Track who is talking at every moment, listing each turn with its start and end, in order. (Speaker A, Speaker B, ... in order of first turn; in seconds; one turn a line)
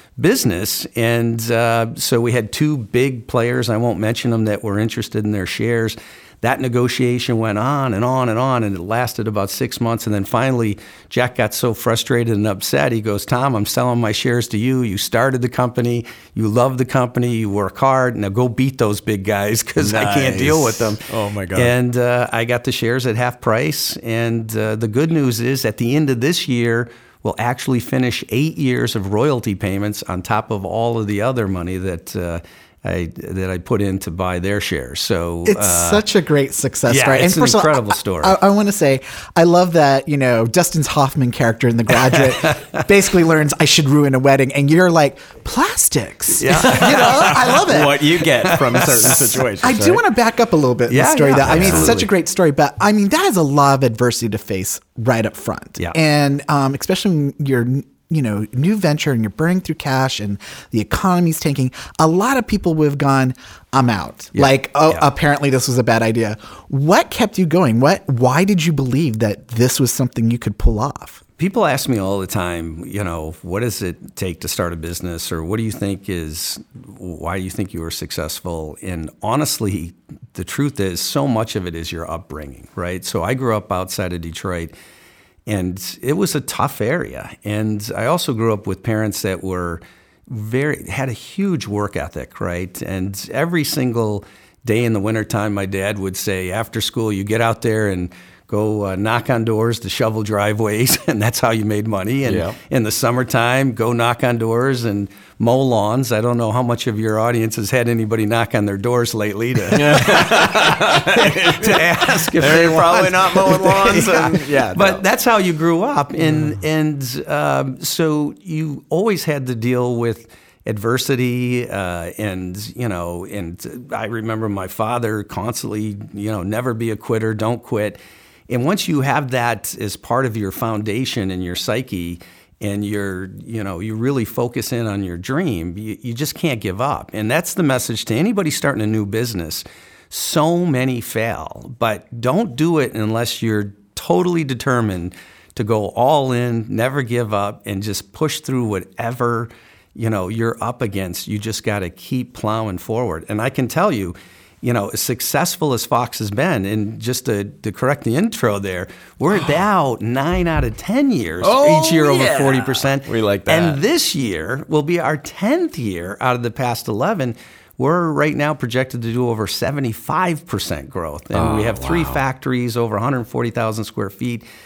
Speaker A: 0.2-21.0
Speaker B: 19.8-21.7
Speaker A: 21.6-36.0
Speaker C: 35.5-71.2
Speaker A: 36.9-38.4
Speaker A: 42.0-42.9
Speaker A: 46.4-47.4
Speaker B: 46.5-50.0
Speaker A: 48.4-49.4
Speaker A: 50.9-52.1
Speaker B: 51.4-52.0
Speaker A: 64.4-65.0
Speaker A: 71.4-84.7
Speaker A: 85.5-174.4
Speaker B: 102.2-102.6
Speaker B: 109.7-115.0
Speaker B: 116.3-116.6
Speaker B: 161.4-163.8
Speaker B: 171.3-172.2